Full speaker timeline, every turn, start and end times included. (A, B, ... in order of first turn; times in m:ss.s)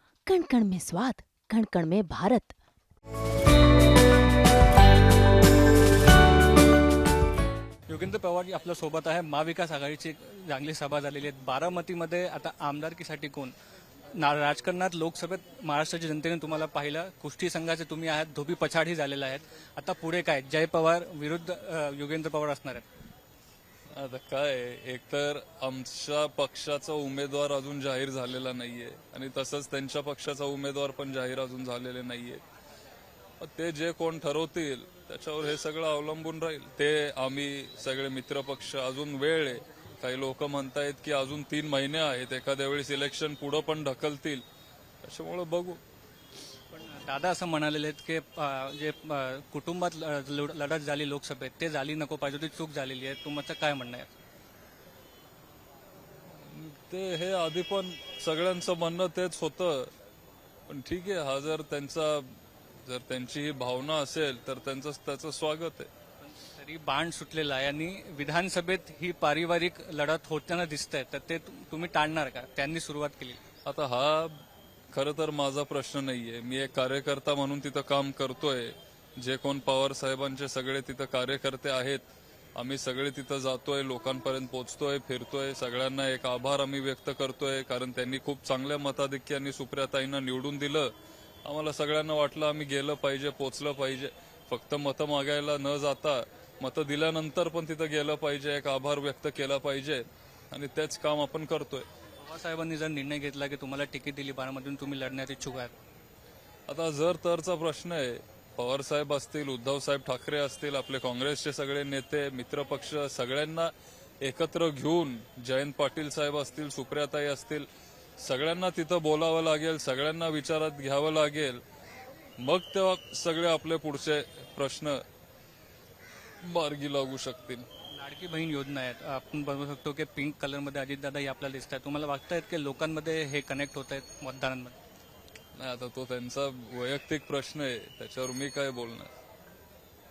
0:00.3-0:02.5 A
0:07.9-0:13.5 B
0:14.1-0:22.8 B
0:24.0-0:32.4 C
0:33.4-0:44.4 C
0:45.0-0:45.8 C
0:46.7-0:54.1 B
0:56.4-0:59.9 C
1:00.7-1:02.3 C
1:02.8-1:05.9 C
1:06.2-1:13.4 B
1:13.6-1:30.9 C
1:31.4-1:41.8 C
1:42.2-1:45.8 B
1:46.7-1:57.6 C
1:58.2-2:01.6 C
2:02.4-2:05.0 C
2:06.4-2:07.6 C
2:07.9-2:14.8 B
2:15.6-2:19.1 C